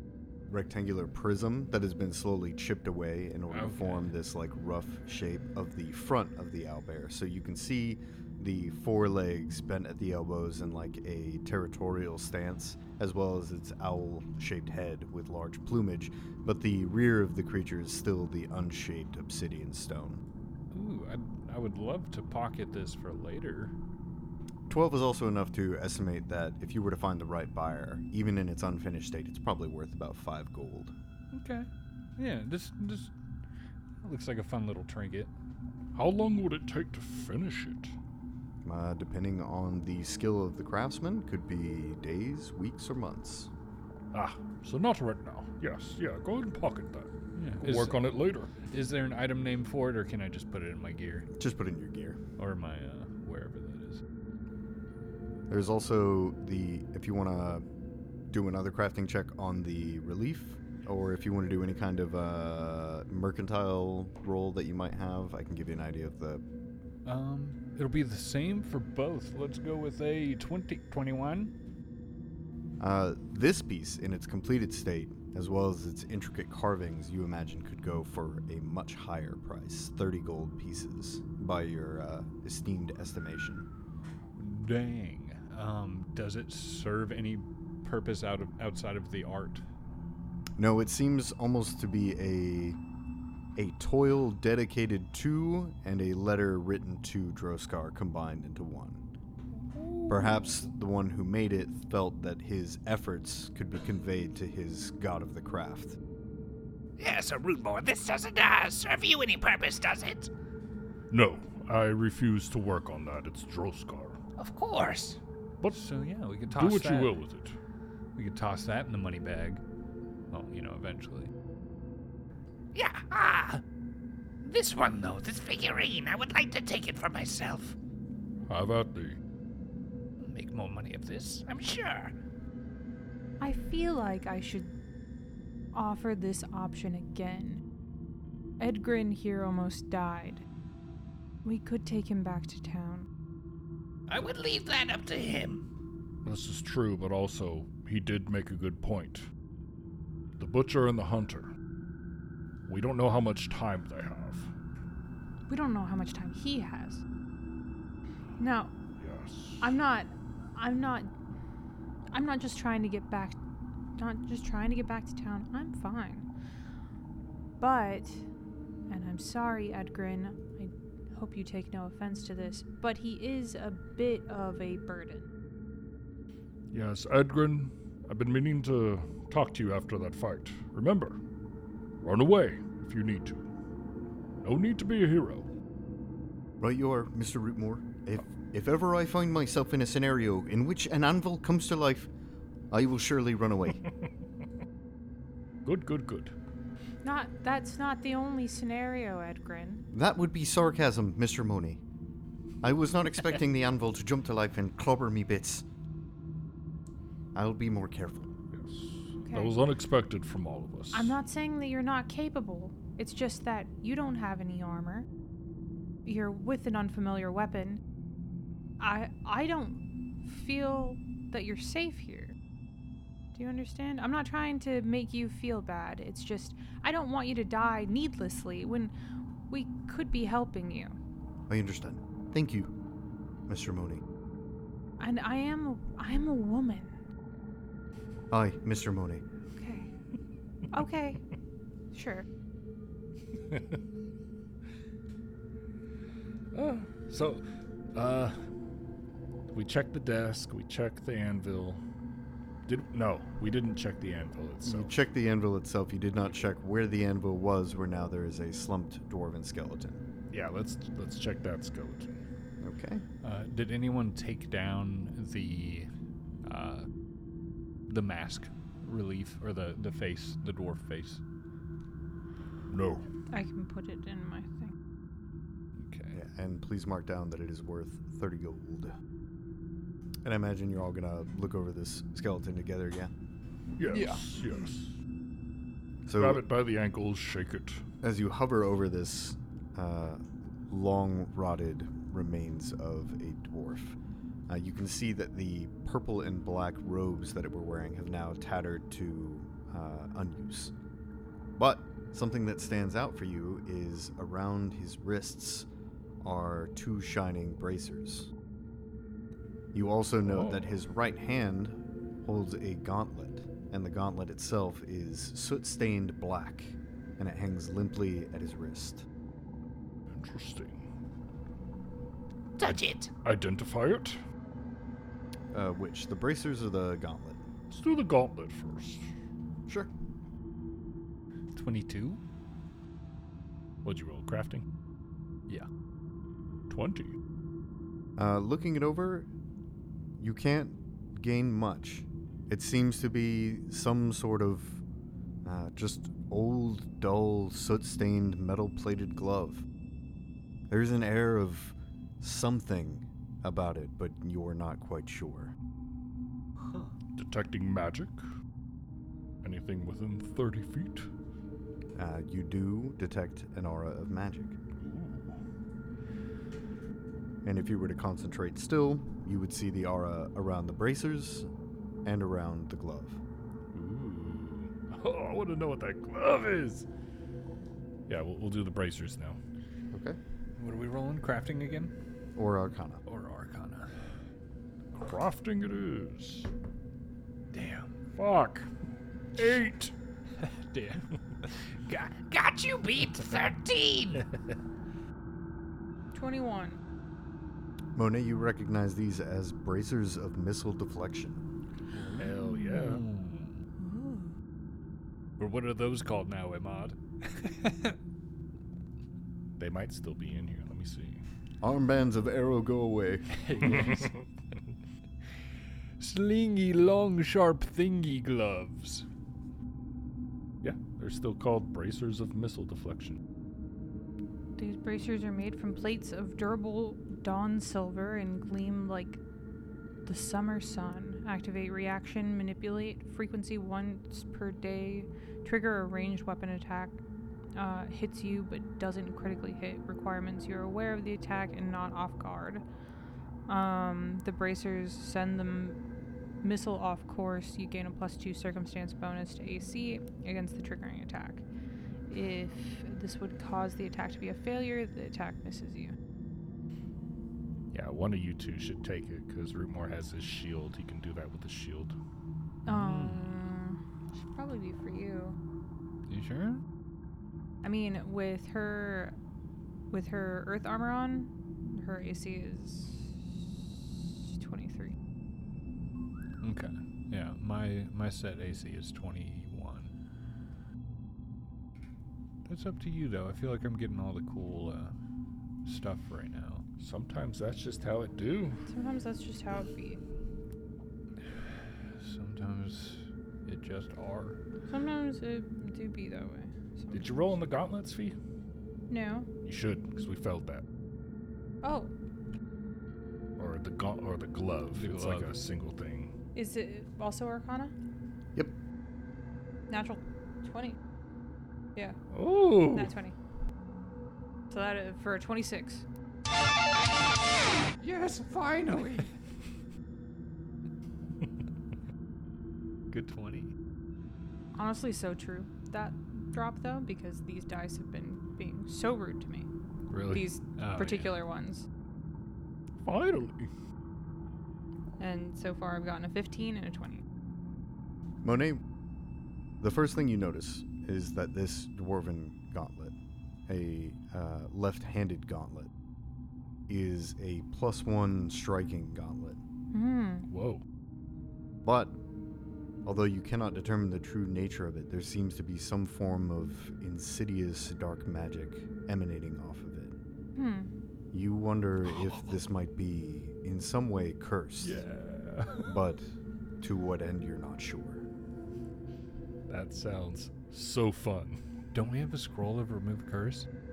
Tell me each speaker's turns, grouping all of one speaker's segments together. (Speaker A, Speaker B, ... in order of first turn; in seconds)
Speaker A: 0.5-20.2, 24.7-30.9, 38.6-43.5, 51.4-52.2, 55.5-57.6, 58.3-66.4, 72.8-83.7, 90.6-92.8, 93.6-99.0, 100.1-106.0, 186.6-192.1, 192.7-193.8, 199.9-201.8, 202.6-205.7, 207.3-208.3, 231.5-232.7, 233.5-234.0, 238.3-239.2, 254.6-260.0, 262.6-263.0, 276.1-278.9, 280.2-283.1, 286.1-286.4, 288.0-294.0, 294.5-300.7, 301.6-305.7, 306.2-308.3, 309.7-319.1, 325.5-327.4, 338.2-339.3, 340.2-344.8, 345.4-349.6, 350.7-355.5, 361.9-364.6, 367.4-371.5, 372.1-373.2, 379.9-380.2, 382.4-383.0, 397.9-401.4, 411.6-413.7, 538.2-538.6, 539.6-543.0, 543.5-545.7, 546.7-549.4, 551.6-552.0, 552.8-560.0, 561.1-564.8, 565.6-566.1, 566.6-568.0
Speaker B: 3.5-4.1, 36.0-37.9, 44.1-48.5, 111.1-114.2, 116.5-117.5, 128.5-129.2, 146.2-149.3, 150.4-151.5, 152.7-154.5, 159.0-159.6, 176.7-181.2, 182.0-183.5, 184.4-185.5, 195.7-196.3, 208.5-211.2, 243.5-243.8, 246.5-248.4, 249.5-251.8, 252.7-254.9, 260.3-262.2, 272.7-273.1, 283.8-284.9, 286.2-287.8, 310.3-310.7, 320.1-320.8, 322.6-324.2, 327.7-329.1, 333.8-334.7, 336.7-337.1, 357.2-358.2, 359.4-361.1, 364.8-365.4, 373.7-376.9, 378.1-379.4, 384.9-386.5, 388.2-388.7, 389.4-389.9, 402.2-403.1, 409.6-411.2, 420.6-423.2, 457.7-461.9, 486.8-488.6, 496.9-498.2, 499.4-500.6, 503.4-506.1, 512.1-512.9, 529.9-530.3, 532.8-533.5, 550.3-550.6, 564.6-565.8, 569.5-571.4
Speaker C: 20.7-23.7, 31.3-33.1, 34.0-35.3, 47.4-51.3, 52.4-54.0, 67.0-71.5, 84.4-89.6, 115.7-117.2, 118.2-119.6, 120.3-121.3, 263.2-265.9, 266.4-266.9, 267.9-271.2, 275.8-276.2, 283.9-284.2, 331.5-332.2, 380.6-381.9, 383.1-383.9, 387.5-387.9, 390.4-391.1, 402.0-403.6, 405.4-408.0, 413.4-414.1, 416.0-419.1, 462.7-463.3, 466.1-466.6, 476.4-479.9, 482.5-484.9, 485.6-486.6, 492.0-494.4, 504.7-505.4, 517.8-519.1, 522.9-523.5, 530.6-531.1, 571.7-573.5
Speaker D: 107.0-110.3, 114.4-115.2, 122.7-123.6, 124.4-127.8, 130.2-132.1, 144.1-145.7, 322.6-323.1, 391.9-394.3
Speaker E: 133.4-134.7, 135.7-137.6, 138.6-140.5, 141.4-143.1, 155.5-157.0, 158.4-158.7, 159.6-161.1, 162.1-163.4, 164.0-166.3, 167.6-168.2, 168.9-175.3, 197.0-199.8, 209.2-209.6, 210.9-215.1, 216.1-217.8, 218.8-222.3, 223.3-228.9, 229.5-231.0, 235.0-236.9, 239.6-239.9, 240.7-241.2, 241.9-242.2, 273.3-274.7, 396.1-396.8, 403.8-404.3, 424.6-429.2, 430.1-437.0, 437.6-442.6, 443.5-445.8, 446.4-451.4, 452.1-456.0, 462.7-465.4, 467.6-469.2, 469.9-474.9, 488.7-490.0, 494.7-497.1, 498.9-499.3, 501.6-501.9, 506.4-507.7, 509.7-510.8, 512.5-513.1, 514.5-515.9, 524.5-529.5, 530.1-531.7, 535.0-537.0, 549.7-550.3, 560.4-560.7